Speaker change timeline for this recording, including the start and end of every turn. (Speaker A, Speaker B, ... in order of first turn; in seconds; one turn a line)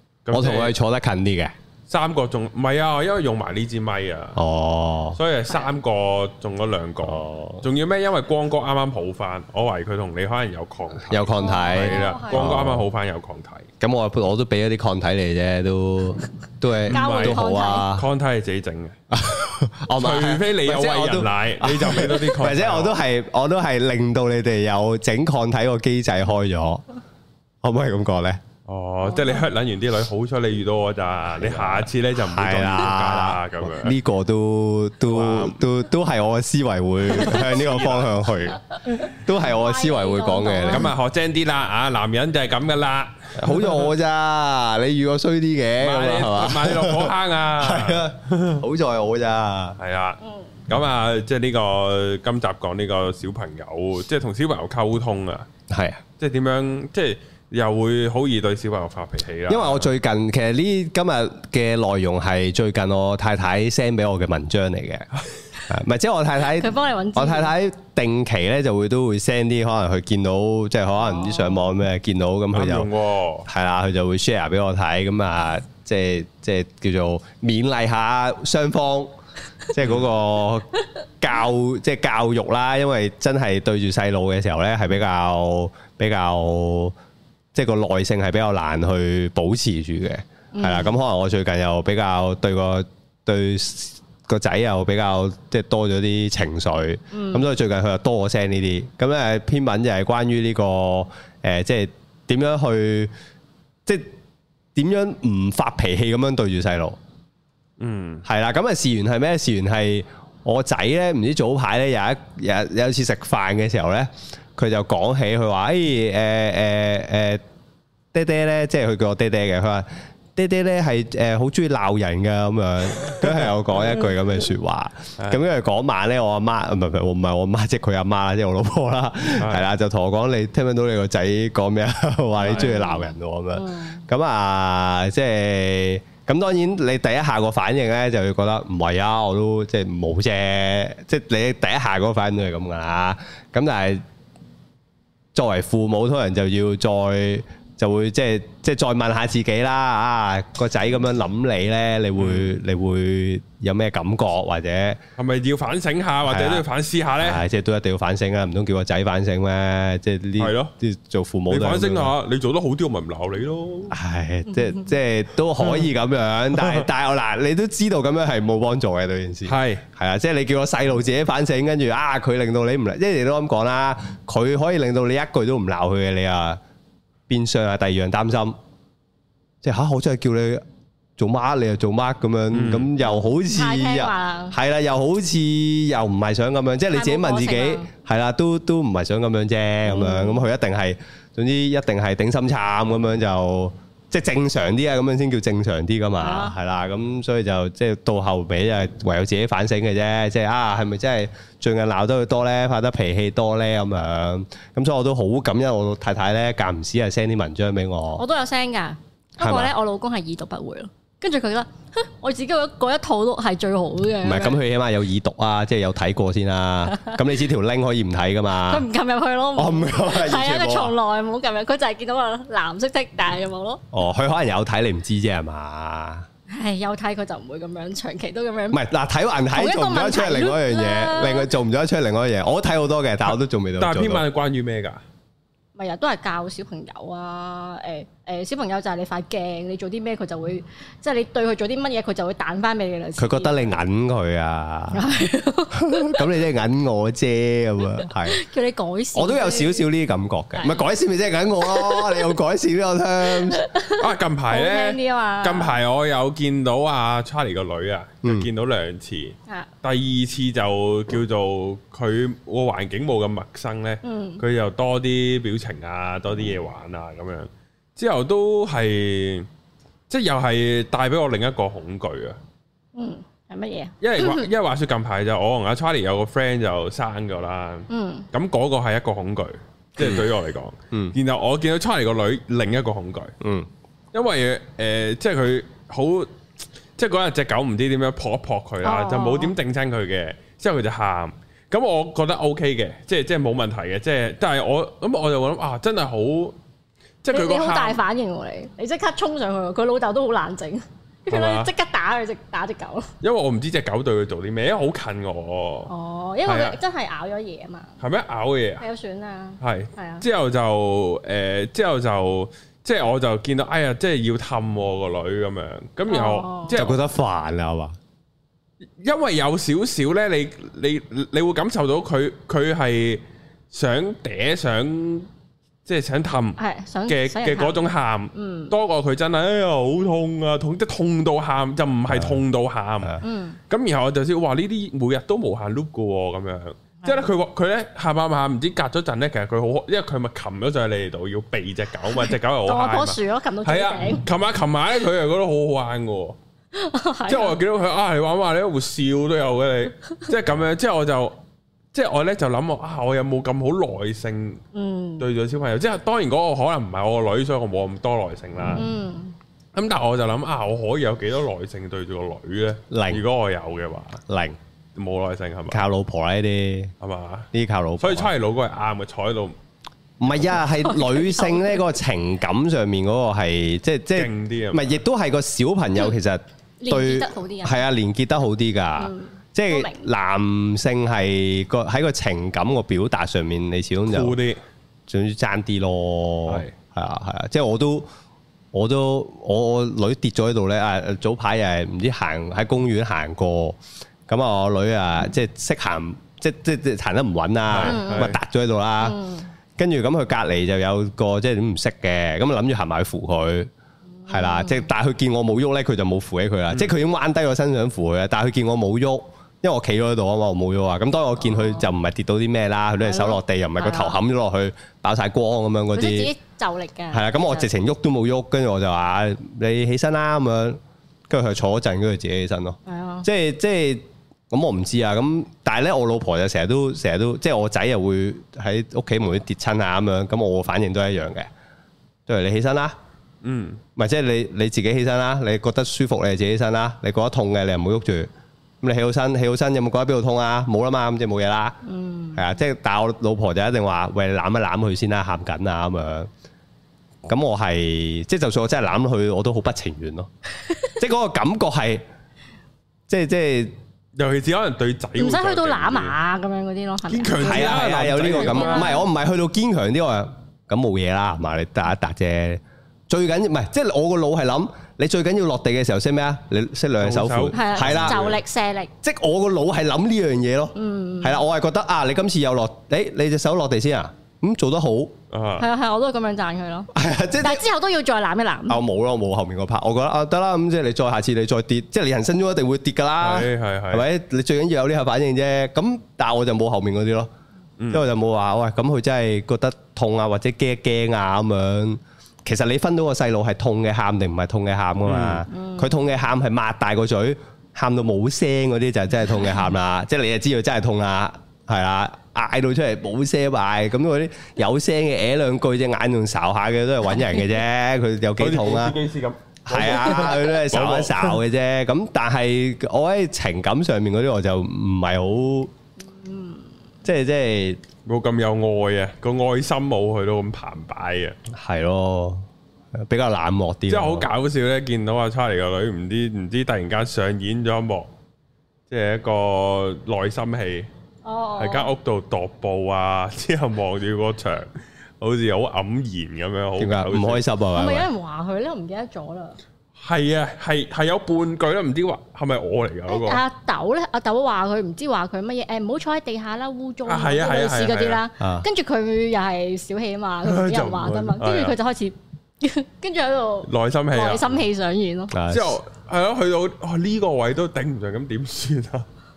Speaker A: 0.3-0.7
Speaker B: 0.3-1.5
Speaker A: 1.9-4.4
Speaker B: 4.3-5.2
Speaker A: 5.2-13.7
Speaker B: 7.0-7.7
Speaker B: 11.1-12.8
Speaker C: 11.4-12.5
Speaker B: 13.8-18.1
Speaker C: 16.9-17.9
Speaker A: 16.9-17.4
Speaker A: 17.9-19.0
Speaker B: 19.1-26.8
Speaker A: 19.9-23.0
Speaker B: 27.6-28.4
Speaker A: 28.7-34.0
Speaker B: 31.4-40.9
Speaker A: 35.1-35.6
Speaker A: 37.1-38.1
Speaker C: 39.5-40.9
Speaker A: 40.7-43.8
Speaker B: 43.4-49.8
Speaker A: 45.8-48.6
Speaker A: 49.8-55.5
Speaker B: 55.7-56.0
Speaker A: 56.2-59.9
Speaker B: 59.5-65.1
Speaker B: 65.7-72.9
Speaker C: 66.5-67.5
Speaker C: 71.0-71.7
Speaker A: 72.5-73.5
Speaker B: 73.5-79.1
Speaker B: 79.7-87.0
Speaker B: 87.5-103.1
Speaker C: 90.5-91.0
Speaker C: 97.1-97.5
Speaker B: 104.8-107.0
Speaker A: 107.8-108.2
Speaker B: 108.2-117.4
Speaker B: 118.1-144.0
Speaker A: 129.4-129.7
Speaker C: 132.4-134.0
Speaker A: 132.4-132.7
Speaker B: 145.3-155.0
Speaker A: 152.2-152.5
Speaker A: 155.2-157.4
Speaker B: 156.2-156.7
Speaker B: 157.2-162.1
Speaker A: 160.4-160.7
Speaker A: 161.5-164.0
Speaker B: 163.9-176.6
Speaker A: 165.6-165.9
Speaker A: 166.6-166.8
Speaker A: 169.4-169.8
Speaker B: 177.3-178.6
Speaker B: 179.6-180.6
Speaker B: 181.2-208.2
Speaker A: 182.5-182.9
Speaker C: 183.4-184.6
Speaker C: 186.9-187.9
Speaker C: 189.8-190.4
Speaker C: 196.2-196.6
Speaker C: 208.2-214.6
Speaker B: 209.4-209.7
Speaker B: 214.2-218.8
Speaker C: 218.7-223.8
Speaker B: 219.6-220.9
Speaker B: 223.9-226.3
Speaker C: 226.5-228.8
Speaker B: 228.7-234.2
Speaker C: 229.5-231.5
Speaker A: 233.8-235.0
Speaker C: 235.8-243.6
Speaker B: 243.2-245.0
Speaker C: 244.9-246.3
Speaker B: 245.7-248.4
Speaker C: 248.1-249.9
Speaker B: 249.2-253.7
Speaker C: 250.6-250.8
Speaker C: 251.6-252.3
Speaker C: 253.3-255.8
Speaker A: 254.0-269.5
Speaker C: 264.0-264.4
Speaker A: 270.1-272.4
Speaker C: 272.9-274.5
Speaker A: 274.0-283.3
Speaker C: 277.9-278.3
Speaker B: 283.4-283.7
Speaker A: 284.1-286.3
Speaker A: 287.0-296.6
Speaker C: 288.8-289.5
Speaker A: 297.2-298.0
Speaker C: 297.3-303.1
Speaker A: 301.3-301.7
Speaker A: 303.2-305.9
Speaker C: 305.9-307.9
Speaker A: 306.4-306.8
Speaker A: 308.0-308.9
Speaker C: 308.8-310.2
Speaker A: 309.6-317.0
Speaker C: 316.1-316.8
Speaker B: 316.8-318.0
Speaker A: 319.0-325.3
Speaker A: 325.9-346.4
Speaker C: 326.6-328.7
Speaker B: 332.1-332.4
Speaker C: 333.2-333.6
Speaker C: 337.0-337.3
Speaker C: 342.6-344.3
Speaker C: 346.7-347.6
Speaker A: 347.3-351.4
Speaker A: 351.9-354.6
Speaker C: 354.7-355.3
Speaker A: 355.2-358.9
Speaker C: 358.8-359.4
Speaker A: 359.7-364.2
Speaker B: 362.9-363.2
Speaker B: 364.3-364.6
Speaker A: 364.9-365.8
Speaker B: 365.7-366.9
Speaker A: 367.0-369.6
Speaker B: 367.5-368.3
Speaker B: 370.2-384.4
Speaker C: 370.7-371.8
Speaker A: 374.1-375.0
Speaker C: 376.8-377.8
Speaker C: 379.0-380.1
Speaker A: 384.1-384.6
Speaker B: 385.1-388.1
Speaker A: 386.5-386.7
Speaker B: 388.7-399.2
Speaker A: 397.7-398.4
Speaker C: 397.8-398.3
Speaker C: 399.0-399.5
Speaker B: 399.8-403.7
Speaker C: 404.2-404.9
Speaker B: 404.3-416.3
Speaker C: 411.5-411.9
Speaker C: 413.0-414.2
Speaker C: 415.9-417.7
Speaker B: 417.1-431.5
Speaker C: 422.9-423.3
Speaker B: 432.3-433.0
Speaker A: 433.4-433.8
Speaker B: 434.0-438.3
Speaker B: 438.8-441.8
Speaker C: 441.8-442.4
Speaker B: 442.4-446.3
Speaker B: 447.3-450.3
Speaker B: 450.9-452.0
Speaker B: 453.1-453.7
Speaker A: 454.2-456.2
Speaker C: 455.2-459.1
Speaker A: 457.1-459.0
Speaker B: 457.4-468.3
Speaker A: 467.0-468.4
Speaker C: 467.5-468.9
Speaker B: 469.0-475.1
Speaker C: 470.8-471.4
Speaker A: 475.3-475.7
Speaker C: 475.6-476.9
Speaker B: 476.9-477.6
Speaker C: 477.4-478.8
Speaker B: 478.7-487.3
Speaker A: 483.2-484.1
Speaker A: 487.8-488.1
Speaker B: 487.9-509.0
Speaker A: 495.1-495.4
Speaker C: 495.5-496.0
Speaker A: 508.4-511.4
Speaker B: 509.7-515.7
Speaker C: 516.0-516.7
Speaker B: 517.0-517.8
Speaker A: 518.1-521.4
Speaker B: 521.5-524.3
Speaker A: 523.9-528.1
Speaker A: 528.9-530.9
Speaker C: 531.2-531.9
Speaker A: 531.6-537.4
Speaker B: 536.8-538.1
Speaker C: 537.7-539.6
Speaker A: 540.0-543.4
Speaker C: 543.1-555.3
Speaker A: 547.1-548.2
Speaker B: 548.4-548.6
Speaker A: 550.5-551.8
Speaker A: 553.7-554.6
Speaker B: 555.3-555.8
Speaker A: 555.5-559.1